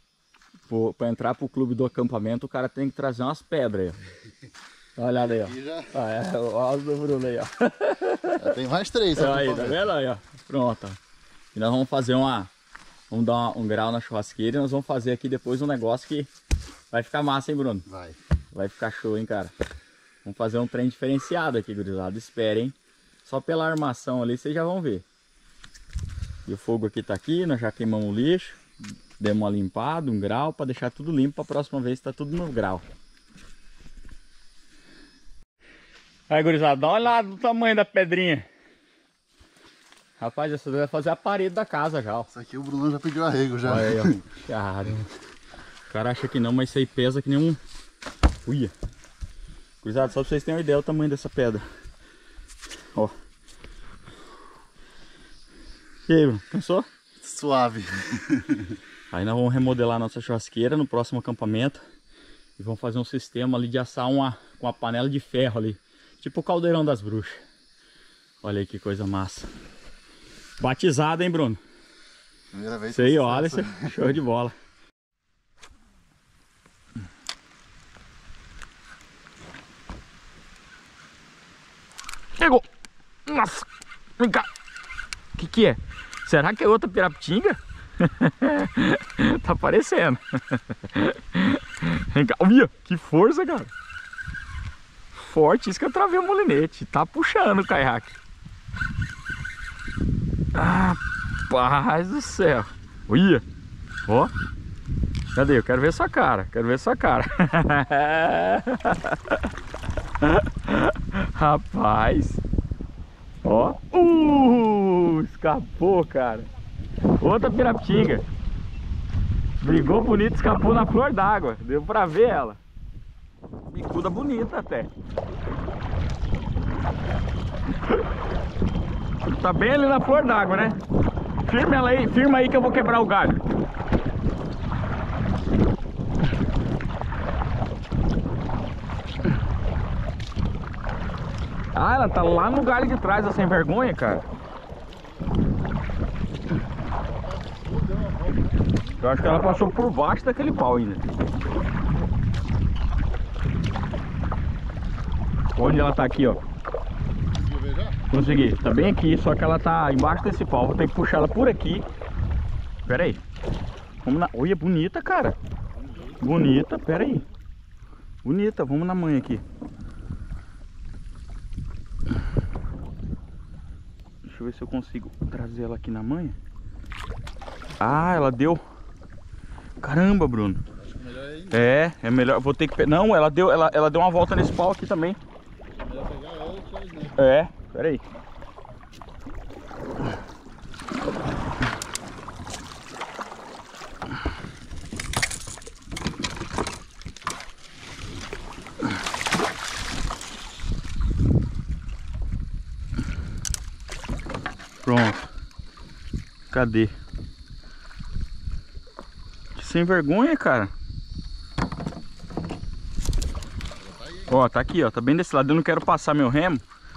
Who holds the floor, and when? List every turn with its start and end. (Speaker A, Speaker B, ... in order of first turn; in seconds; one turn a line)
Speaker A: 0.7-4.0
Speaker A: 5.0-8.5
Speaker B: 5.5-5.9
Speaker B: 8.3-9.9
Speaker A: 9.2-11.0
Speaker A: 11.5-12.5
Speaker A: 13.1-16.3
Speaker A: 16.9-17.8
Speaker B: 17.9-18.2
Speaker A: 18.5-19.5
Speaker A: 20.2-25.0
Speaker A: 26.4-28.6
Speaker A: 29.2-32.8
Speaker A: 36.3-38.5
Speaker A: 40.2-42.3
Speaker B: 42.3-44.2
Speaker A: 43.6-45.1
Speaker A: 45.9-47.6
Speaker A: 48.4-48.7
Speaker A: 49.8-51.6
Speaker A: 56.1-56.9
Speaker B: 57.2-58.8
Speaker A: 59.1-61.8
Speaker A: 62.6-67.4
Speaker A: 68.4-69.5
Speaker A: 70.6-71.6
Speaker B: 72.5-74.0
Speaker A: 72.9-74.5
Speaker A: 82.4-82.7
Speaker A: 83.2-83.7
Speaker A: 84.2-84.5
Speaker A: 85.3-93.7
Speaker A: 95.1-98.2
Speaker A: 100.5-103.4
Speaker A: 104.1-104.3
Speaker A: 105.3-109.5
Speaker A: 110.2-112.4
Speaker A: 113.4-116.5
Speaker A: 117.1-118.2
Speaker A: 119.6-122.6
Speaker A: 123.7-124.9
Speaker A: 129.2-130.8
Speaker A: 131.4-133.4
Speaker A: 141.7-144.2
Speaker B: 144.8-145.5
Speaker B: 147.0-148.8
Speaker A: 149.0-151.1
Speaker A: 155.6-156.4
Speaker B: 157.3-158.0
Speaker A: 158.1-161.8
Speaker A: 162.8-163.2
Speaker A: 164.0-165.4
Speaker A: 166.2-167.2
Speaker A: 168.2-169.4
Speaker A: 174.2-176.4
Speaker A: 177.8-178.6
Speaker A: 179.8-180.6
Speaker B: 180.8-181.8
Speaker A: 181.5-185.2
Speaker B: 185.7-187.3
Speaker A: 187.1-188.0
Speaker A: 204.8-205.3
Speaker A: 206.5-206.9
Speaker A: 209.5-210.7
Speaker B: 213.8-214.4
Speaker A: 214.3-216.6